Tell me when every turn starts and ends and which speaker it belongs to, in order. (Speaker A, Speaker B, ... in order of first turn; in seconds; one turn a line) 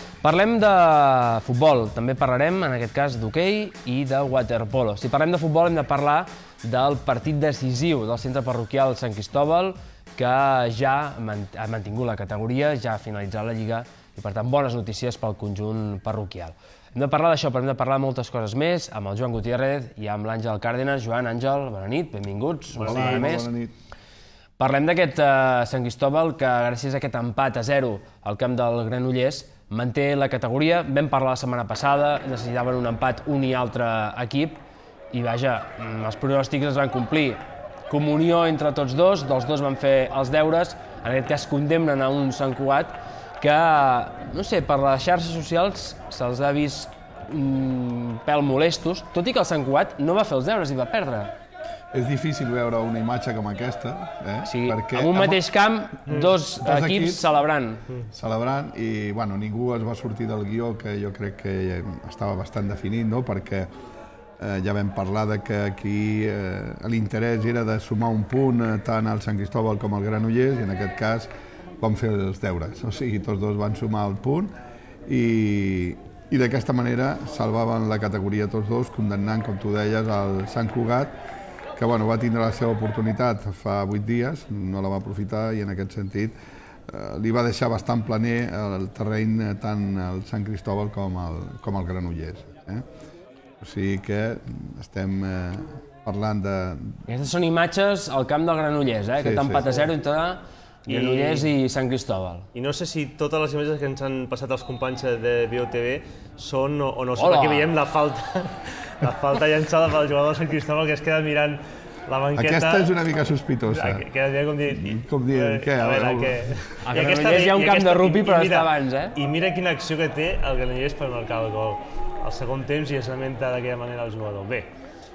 Speaker A: 0.2-23.5
Speaker B: 22.8-23.4
Speaker C: 22.8-23.7
Speaker A: 24.6-51.3
Speaker C: 51.9-55.4
Speaker A: 54.5-57.9
Speaker C: 56.6-57.3
Speaker C: 58.1-63.7
Speaker C: 64.4-74.5
Speaker C: 75.1-81.2
Speaker C: 81.8-86.4
Speaker C: 86.9-92.9
Speaker C: 93.6-97.0
Speaker A: 97.1-102.5
Speaker C: 99.2-99.7
Speaker B: 100.9-101.5
Speaker B: 102.5-113.0
Speaker A: 107.2-107.7
Speaker C: 112.3-114.0
Speaker B: 113.7-124.7
Speaker C: 114.7-116.6
Speaker A: 116.8-119.2